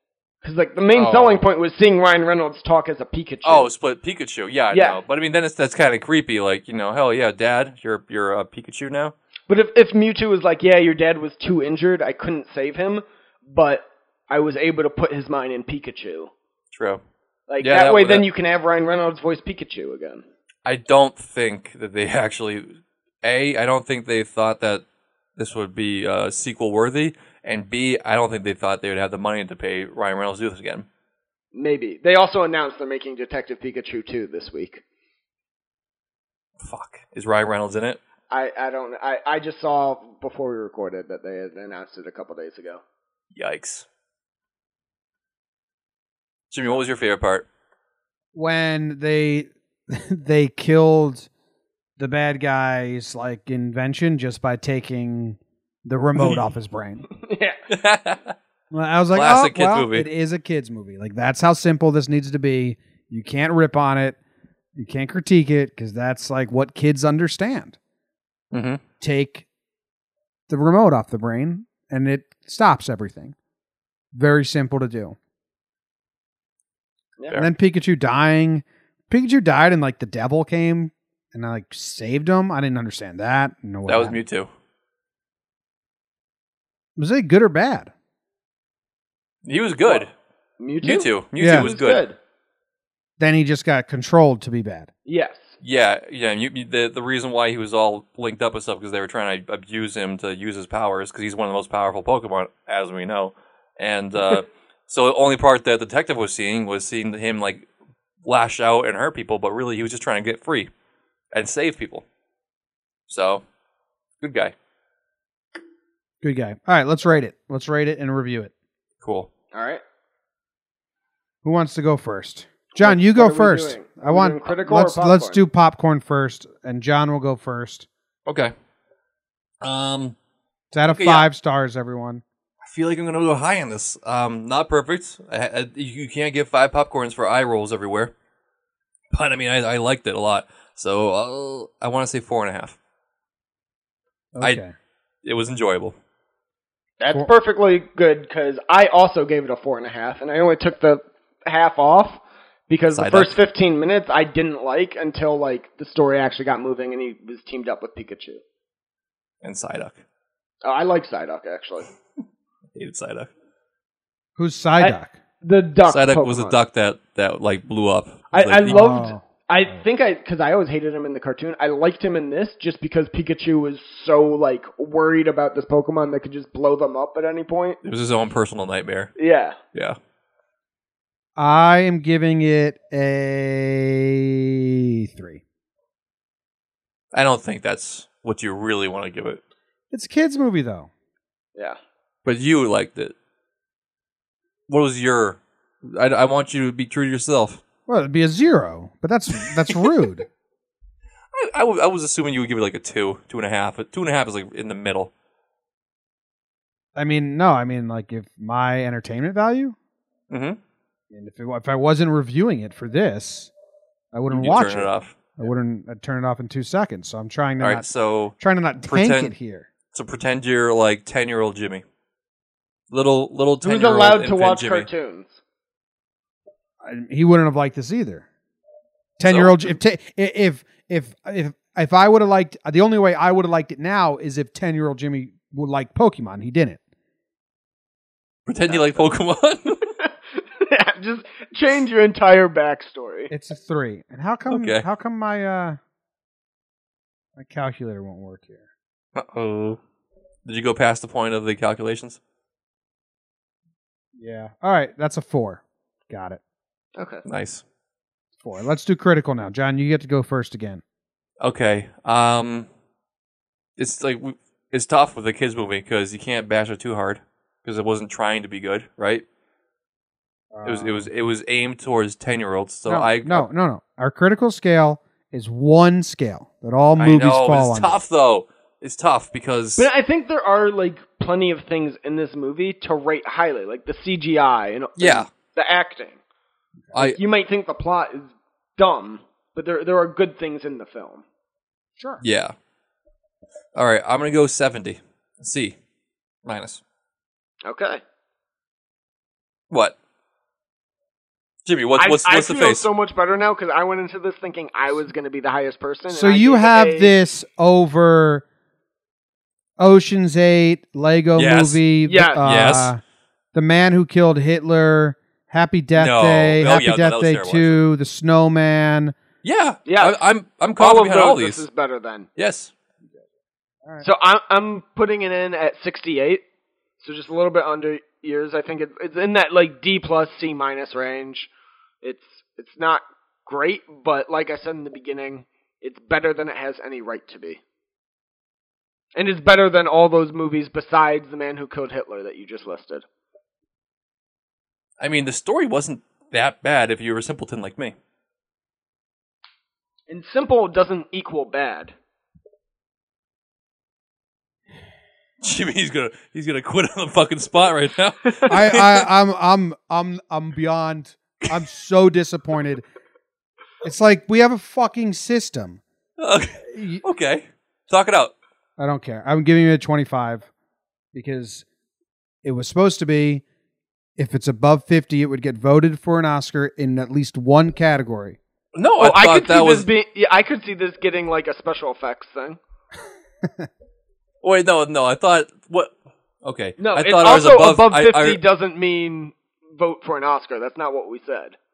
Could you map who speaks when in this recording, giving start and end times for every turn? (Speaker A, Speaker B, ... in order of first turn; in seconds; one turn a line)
Speaker A: 0.4-3.7
Speaker B: 0.9-1.4
Speaker B: 3.4-9.1
Speaker A: 4.7-5.0
Speaker A: 9.5-16.3
Speaker B: 16.7-17.0
Speaker A: 17.5-20.2
Speaker B: 17.6-18.3
Speaker B: 20.6-22.7
Speaker B: 23.2-24.8
Speaker B: 25.4-30.9
Speaker A: 31.5-34.8
Speaker B: 36.6-38.0
Speaker A: 38.3-42.8
Speaker B: 43.3-43.9
Speaker B: 46.5-47.5
Speaker C: 48.4-51.3
Speaker C: 52.0-57.1
Speaker A: 57.2-57.6
Speaker B: 57.7-58.4
Speaker C: 58.7-64.2
Speaker B: 59.1-60.1
Speaker C: 64.8-67.8
Speaker B: 68.5-68.8
Speaker C: 69.0-69.4
Speaker C: 70.5-73.3
Speaker C: 74.1-75.2
Speaker C: 77.3-84.2
Speaker B: 83.9-84.5
Speaker C: 87.0-87.9
Speaker B: 89.4-90.1
Speaker A: 90.6-92.2
Speaker B: 90.8-92.0
Speaker C: 91.4-91.7
Speaker C: 93.2-94.9
Speaker A: 95.1-95.6
Speaker B: 95.6-107.7
Speaker B: 108.2-110.7
Speaker B: 111.3-112.0
Speaker B: 113.1-113.4
Speaker B: 114.2-114.5
Speaker C: 116.2-118.5
Speaker B: 119.0-119.3
Speaker A: 119.5-119.8
Speaker C: 121.4-127.9
Speaker A: 122.8-125.4
Speaker B: 128.3-128.5
Speaker B: 129.6-130.2
Speaker C: 130.7-132.2
Speaker B: 130.9-131.3
Speaker B: 132.6-138.1
Speaker B: 139.1-142.8
Speaker C: 144.3-144.7
Speaker B: 145.2-146.0
Speaker A: 147.0-158.4
Speaker B: 152.9-153.3
Speaker B: 159.4-160.0
Speaker A: 160.6-161.9
Speaker B: 162.8-163.3
Speaker C: 164.4-165.1
Speaker A: 164.8-166.6
Speaker B: 165.9-168.9
Speaker A: 168.3-177.8
Speaker C: 168.7-169.8
Speaker B: 177.8-179.1
Speaker A: 179.2-179.6
Speaker C: 181.4-185.4
Speaker B: 187.1-189.4
Speaker C: 189.9-190.9
Speaker B: 192.2-193.1
Speaker B: 194.7-197.6
Speaker C: 197.9-200.3
Speaker B: 201.3-205.1
Speaker C: 206.9-209.8
Speaker B: 210.3-210.6
Speaker C: 211.1-213.5
Speaker C: 214.1-217.8
Speaker B: 214.3-215.4
Speaker B: 217.6-219.3
Speaker C: 218.4-219.7
Speaker B: 219.9-221.8
Speaker B: 222.9-224.9
Speaker A: 223.6-225.3
Speaker C: 226.8-228.2
Speaker C: 229.2-236.8
Speaker B: 229.3-229.7
Speaker B: 238.5-239.8
Speaker A: 238.7-239.1
Speaker A: 240.6-243.3
Speaker C: 243.3-245.8
Speaker B: 244.5-244.8
Speaker C: 247.4-248.6
Speaker B: 249.1-249.8
Speaker B: 250.4-252.2
Speaker C: 254.2-256.4
Speaker A: 256.9-257.2
Speaker B: 257.3-257.6
Speaker C: 258.4-260.8
Speaker B: 261.4-262.7
Speaker B: 263.8-269.2
Speaker C: 270.5-271.1
Speaker B: 270.6-273.5
Speaker C: 272.9-278.0
Speaker B: 277.0-279.9
Speaker A: 279.8-286.2
Speaker B: 285.0-285.3
Speaker A: 286.9-291.2
Speaker C: 292.0-292.2
Speaker B: 292.2-292.6
Speaker B: 293.8-295.8
Speaker B: 296.4-296.8
Speaker A: 297.6-298.0
Speaker B: 299.7-299.9
Speaker B: 301.6-302.9
Speaker A: 302.0-307.1
Speaker C: 306.1-308.4
Speaker C: 309.8-313.0
Speaker B: 311.4-311.8
Speaker A: 312.1-312.4
Speaker B: 312.4-312.9
Speaker C: 313.5-319.1
Speaker B: 315.9-317.8
Speaker B: 319.4-321.6
Speaker A: 319.9-320.2
Speaker A: 320.8-322.3
Speaker B: 322.4-322.7
Speaker A: 324.0-326.4
Speaker A: 327.0-331.5
Speaker A: 332.0-337.6
Speaker A: 339.1-343.1
Speaker B: 345.0-347.9
Speaker A: 350.1-351.9
Speaker B: 355.4-359.1
Speaker C: 358.4-362.9
Speaker C: 363.8-365.8
Speaker B: 366.2-368.3
Speaker C: 366.7-367.0
Speaker C: 368.8-370.5
Speaker C: 371.1-371.6
Speaker C: 372.4-373.4
Speaker C: 374.2-378.4
Speaker B: 378.8-379.9
Speaker A: 379.0-382.6
Speaker B: 384.4-388.4
Speaker A: 386.8-391.6